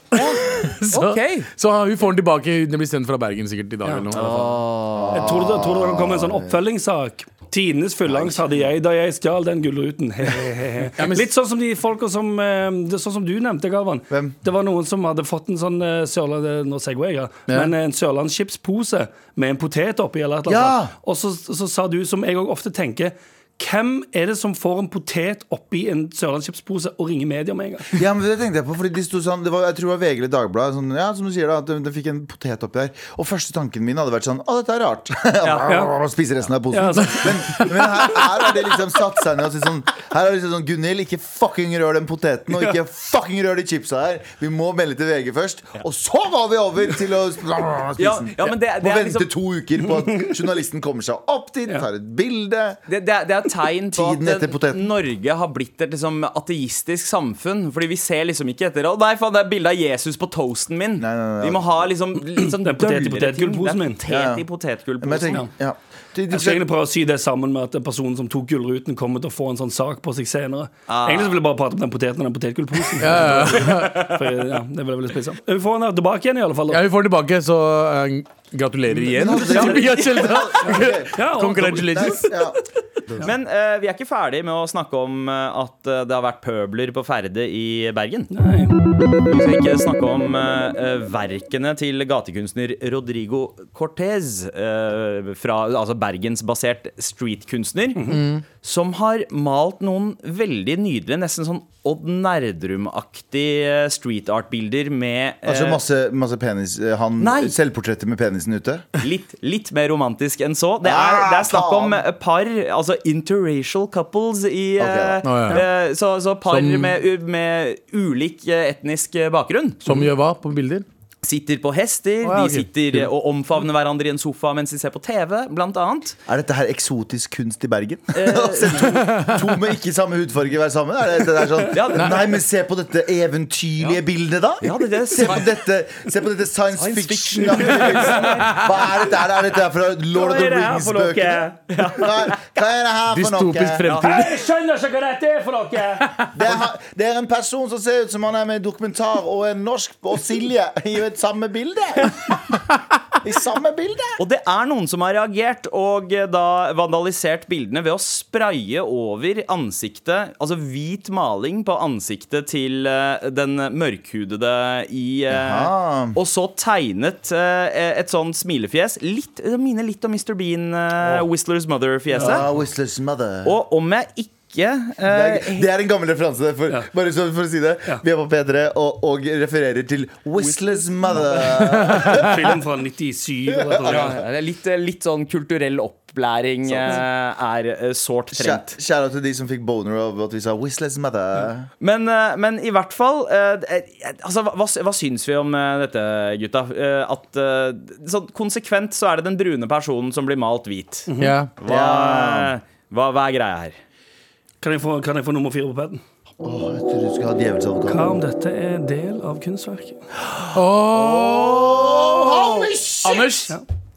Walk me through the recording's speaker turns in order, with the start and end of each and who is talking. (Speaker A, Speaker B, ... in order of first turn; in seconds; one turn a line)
Speaker A: 0.1-4.6
Speaker B: 0.9-1.5
Speaker C: 3.8-4.1
Speaker B: 4.1-5.5
Speaker D: 5.0-6.6
Speaker C: 5.1-28.0
Speaker D: 8.1-8.4
Speaker A: 11.0-11.3
Speaker D: 14.1-14.4
Speaker D: 20.5-20.9
Speaker D: 27.9-52.8
Speaker B: 35.4-35.7
Speaker C: 35.7-35.9
Speaker C: 36.7-37.7
Speaker B: 48.0-49.3
Speaker C: 49.9-50.3
Speaker B: 52.9-65.5
Speaker D: 53.9-54.9
Speaker D: 61.0-61.9
Speaker C: 62.4-64.0
Speaker D: 64.1-64.4
Speaker D: 65.0-66.7
Speaker C: 66.3-76.8
Speaker B: 70.9-71.4
Speaker A: 73.0-74.2
Speaker A: 76.7-82.3
Speaker D: 78.9-82.6
Speaker C: 79.2-79.9
Speaker C: 80.6-82.3
Speaker B: 83.2-88.3
Speaker C: 88.3-88.7
Speaker B: 89.2-105.8
Speaker C: 98.0-98.2
Speaker A: 98.1-98.4
Speaker D: 105.5-108.9
Speaker B: 107.2-107.5
Speaker B: 109.0-119.9
Speaker D: 110.8-112.0
Speaker D: 114.8-115.5
Speaker A: 115.2-115.7
Speaker A: 116.5-117.0
Speaker A: 119.8-120.9
Speaker B: 121.2-126.2
Speaker A: 122.2-123.1
Speaker D: 126.3-143.9
Speaker B: 128.1-128.9
Speaker B: 131.7-132.3
Speaker B: 134.6-135.5
Speaker B: 136.8-138.8
Speaker C: 137.5-137.9
Speaker B: 140.1-142.5
Speaker A: 143.1-144.4
Speaker B: 143.9-144.1
Speaker C: 143.9-146.1
Speaker D: 146.3-152.4
Speaker D: 153.2-154.2
Speaker B: 154.2-172.5
Speaker D: 165.3-166.2
Speaker C: 172.2-172.5
Speaker D: 172.2-173.6
Speaker B: 173.4-175.7
Speaker D: 175.1-182.5
Speaker B: 180.4-181.4
Speaker A: 181.8-182.4
Speaker C: 182.1-184.2
Speaker D: 183.5-184.2
Speaker B: 183.8-188.8
Speaker D: 186.7-187.0
Speaker D: 188.3-191.7
Speaker B: 191.8-201.1
Speaker C: 201.1-201.4
Speaker A: 201.2-201.5
Speaker B: 201.6-203.8
Speaker D: 201.6-202.5
Speaker C: 204.6-206.0
Speaker D: 206.4-208.2
Speaker C: 207.9-210.0
Speaker A: 210.5-211.8
Speaker D: 210.9-213.4
Speaker B: 211.0-211.2
Speaker B: 211.8-212.4
Speaker A: 213.0-213.5